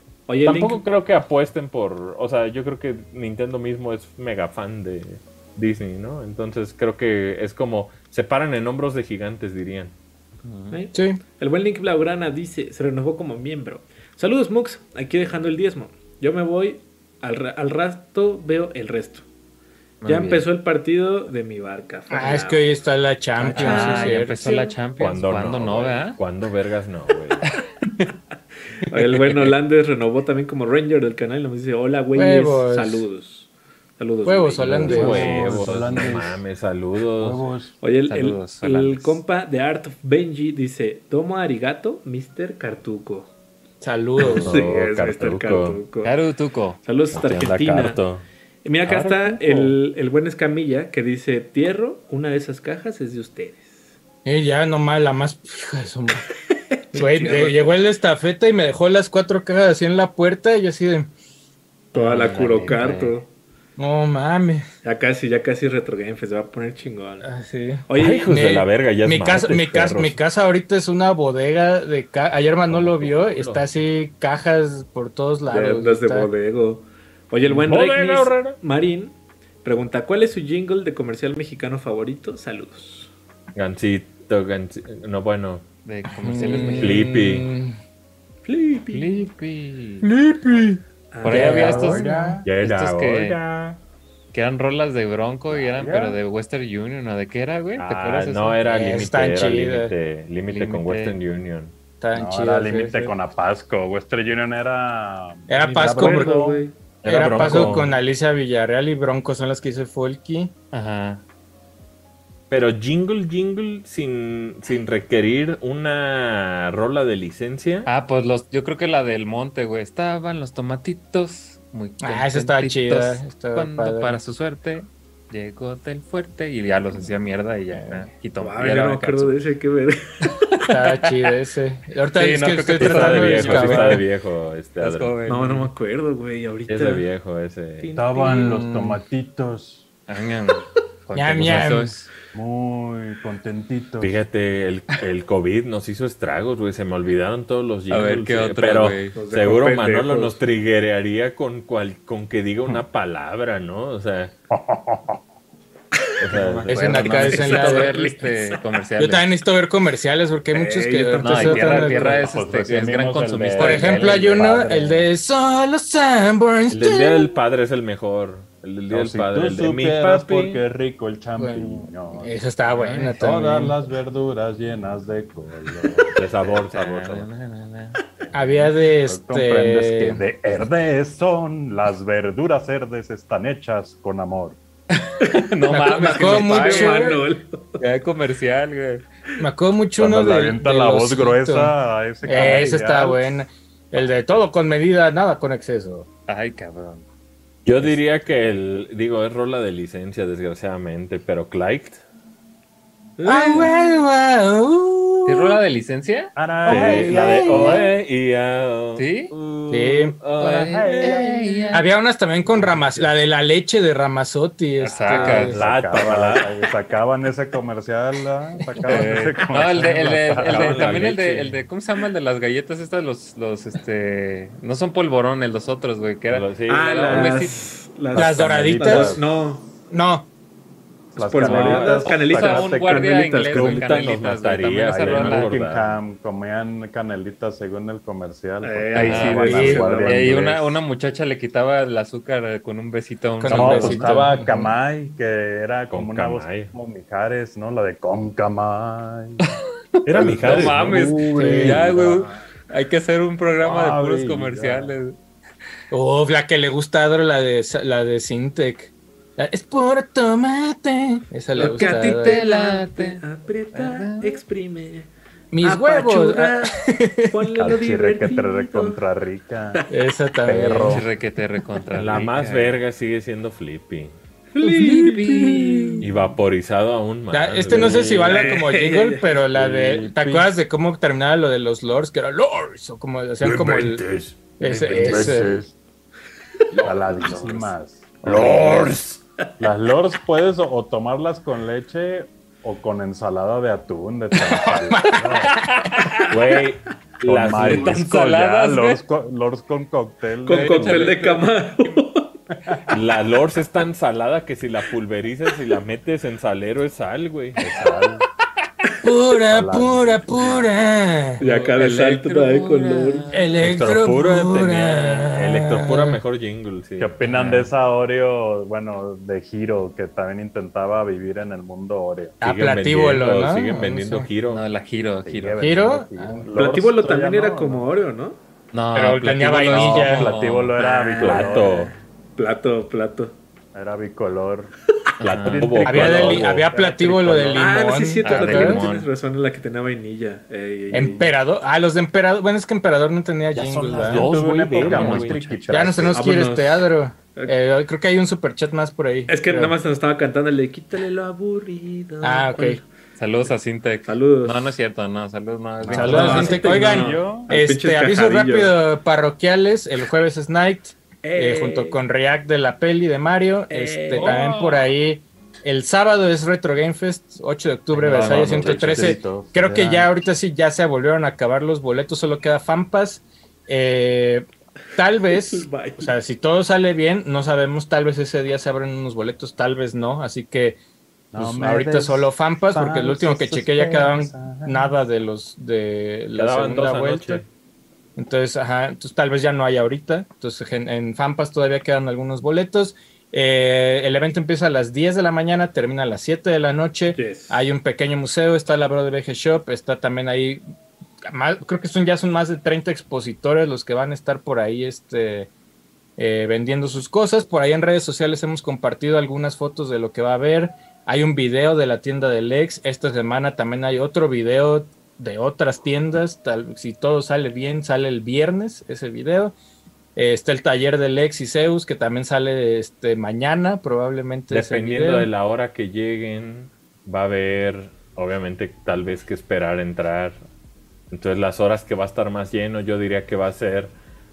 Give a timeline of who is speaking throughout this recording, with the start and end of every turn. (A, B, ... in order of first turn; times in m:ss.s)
0:00.3-0:00.8 A
0:00.4-0:09.9 B
0:10.4-0:10.8 C
0:10.7-0:19.2 A
0:10.9-0:11.2 D
0:20.0-0:20.4 C
0:20.1-0:22.6 A
0:22.1-0:24.7 D
0:23.4-0:26.2 C
0:23.6-0:24.6 A
0:25.0-0:27.4 B
0:27.5-0:28.1 C
0:28.9-0:35.5 A
0:28.9-0:29.6 C
0:32.2-0:33.1 D
0:34.2-0:35.3 D
0:34.6-0:36.4 E
0:34.9-0:37.4 B
0:37.2-0:37.7 E
0:37.8-0:43.3 A
0:38.1-0:39.2 C
0:43.8-0:44.6 D
0:44.2-0:46.2 A
0:44.4-0:45.8 B
0:46.0-0:46.8 C
0:46.8-0:48.0 A
0:47.1-0:48.3 B
0:48.6-0:53.8 A
0:48.8-0:49.8 B
0:54.2-0:56.2 D
0:56.9-0:57.7 A
0:56.9-1:01.1 D
1:01.9-1:03.2 C
1:01.9-1:03.3 A
1:03.8-1:04.6 D
1:04.8-1:07.3 A
1:07.2-1:16.3 D
1:07.9-1:08.3 A
1:08.0-1:10.2 B
1:12.7-1:13.7 B
1:15.5-1:23.1 A
1:17.4-1:18.6 B
1:23.6-1:25.7 B
1:25.8-1:27.1 C
1:26.1-1:27.8 D
1:26.5-1:27.5 B
1:28.4-1:29.1 A
1:28.9-1:30.1 C
1:30.0-1:31.9 B
1:31.1-1:32.0 A
1:31.2-1:33.4 C
1:31.3-1:32.4 D
1:31.3-1:32.5 E
1:32.4-1:33.8 B
1:34.3-1:39.0 C
1:35.5-1:36.2 E
1:37.8-1:41.7 B
1:38.7-1:39.9 D
1:40.5-1:41.2 C
1:42.0-1:43.1 D
1:42.1-1:47.8 E
1:45.5-1:46.5 D
1:45.6-1:46.7 A
1:47.0-1:47.9 B
1:47.0-1:50.5 D
1:50.7-1:51.2 C
1:52.5-1:57.9 B
1:57.8-2:09.4 C
2:02.0-2:04.2 D
2:07.7-2:08.0 D
2:08.4-2:10.3 A
2:10.7-2:14.0 D
2:12.2-2:14.0 C
2:12.8-2:15.2 B
2:14.8-2:15.7 C
2:15.2-2:17.1 A
2:16.7-2:17.9 B
2:17.8-2:18.6 A
2:17.9-2:19.9 E
2:18.2-2:19.0 D
2:20.1-2:22.1 C
2:21.2-2:22.1 D
2:22.3-2:24.2 E
2:24.0-2:34.4 B
2:27.9-2:29.2 C
2:29.2-2:30.4 A
2:34.5-2:35.2 E
2:36.2-2:36.8 B
2:36.2-2:37.9 E
2:36.7-2:39.2 C
2:36.7-2:38.0 D
2:37.7-2:38.8 A
2:39.0-2:42.2 D
2:40.5-2:42.4 A
2:41.2-2:44.6 C
2:42.2-2:45.1 E
2:43.6-2:47.3 D
2:46.7-2:50.6 B
2:48.9-2:52.4 E
2:51.4-2:53.8 D
2:52.7-2:53.6 C
2:53.2-2:56.6 E
2:56.2-2:57.3 B
2:56.7-2:58.0 C
2:58.3-3:00.2 D
2:59.0-3:04.6 E
3:05.2-3:07.8 A
3:05.2-3:07.2 C
3:05.7-3:07.2 D
3:07.8-3:09.0 C
3:09.4-3:16.1 D
3:10.0-3:13.4 E
3:12.3-3:12.8 C
3:16.3-3:17.0 C
3:17.6-3:22.0 B
3:23.2-3:23.7 A
3:23.2-3:25.6 D
3:25.3-3:26.3 C
3:26.4-3:27.9 E
3:26.7-3:27.8 D
3:26.7-3:31.2 B
3:29.0-3:29.3 C
3:29.7-3:30.2 D
3:30.4-3:31.9 C
3:30.7-3:31.7 E
3:31.0-3:35.6 D
3:32.5-3:32.9 E
3:34.8-3:35.6 C
3:35.1-3:41.2 E
3:35.1-3:36.5 B
3:38.8-3:39.0 D
3:38.8-3:47.6 C
3:40.3-3:41.6 B
3:46.3-3:47.5 B
3:46.7-3:49.7 A
3:48.1-3:49.2 E
3:48.2-3:49.2 D
3:49.9-3:50.3 D
3:51.1-3:53.1 E
3:51.2-3:54.1 A
3:51.4-3:52.7 B
3:51.8-3:55.6 C
3:53.5-3:56.0 B
3:55.0-4:00.8 E
3:58.6-4:00.2 A
3:59.0-4:04.7 C
3:59.3-3:59.8 D
4:03.4-4:04.7 D
4:03.5-4:12.3 E
4:05.9-4:06.7 B
4:09.4-4:15.2 C
4:10.0-4:12.0 B
4:13.6-4:15.0 E
4:15.9-4:22.4 D
4:21.6-4:25.1 A
4:21.6-4:23.2 C
4:24.0-4:24.2 C
4:25.5-4:27.4 D
4:25.6-4:29.0 A
4:27.6-4:29.8 E
4:29.9-4:31.0 D
4:30.4-4:31.1 E
4:30.7-4:32.7 C
4:31.9-4:34.2 B
4:34.5-4:36.0 A
4:34.6-4:36.0 D
4:36.0-4:38.4 B
4:37.3-4:45.6 D
4:37.7-4:38.0 E
4:38.2-4:39.4 A
4:39.5-4:40.5 E
4:43.4-4:45.7 E
4:44.8-4:45.2 C
4:46.8-4:49.0 E
4:47.2-4:47.4 B
4:48.2-4:49.0 D
4:48.2-4:49.1 B
4:49.6-4:55.6 E
4:54.4-4:56.2 D
4:55.5-4:56.0 C
4:56.3-4:58.1 B
4:57.2-5:01.1 E
4:57.5-4:59.0 C
5:00.4-5:02.0 C
5:00.5-5:02.4 A
5:02.6-5:03.0 E
5:02.9-5:07.9 B
5:07.6-5:08.3 E
5:09.0-5:11.4 D
5:09.5-5:10.7 E
5:11.4-5:13.3 A
5:11.4-5:13.5 C
5:13.3-5:16.2 D
5:13.6-5:17.1 B
5:17.0-5:22.4 E
5:17.2-5:17.7 C
5:22.4-5:24.3 D
5:22.4-5:24.6 B
5:24.5-5:25.9 C
5:25.2-5:27.9 E
5:25.6-5:26.5 D
5:26.6-5:28.4 A
5:28.7-5:30.8 C
5:29.0-5:30.3 D
5:29.6-5:31.9 E
5:30.8-5:33.4 A
5:31.2-5:31.9 B
5:33.7-5:34.7 E
5:35.2-5:35.8 C
5:35.2-5:36.7 B
5:35.2-5:37.7 E
5:35.8-5:38.8 D
5:37.5-5:41.3 A
5:38.2-5:39.1 C
5:38.6-5:39.1 B
5:40.9-5:44.3 D
5:43.6-5:45.7 B
5:44.0-5:46.3 E
5:44.8-5:46.0 C
5:45.7-5:49.8 D
5:46.1-5:47.5 A
5:49.3-5:52.9 A
5:52.2-5:52.8 D
5:53.2-5:56.7 C
5:54.1-5:54.8 A
5:55.8-5:57.5 E
5:55.9-6:20.8 D
5:56.0-5:58.7 A
6:01.2-6:02.0 A
6:03.7-6:04.6 A
6:04.2-6:04.6 E
6:07.9-6:09.2 C
6:08.1-6:10.1 E
6:15.3-6:16.1 A
6:21.3-6:25.0 E
6:21.4-6:27.4 D
6:26.4-6:27.4 B
6:28.2-6:40.6 D
6:37.2-6:37.7 A
6:41.3-6:45.5 D
6:46.2-6:59.6 D
7:00.2-7:05.3 D
7:04.5-7:10.4 B
7:11.1-7:13.9 B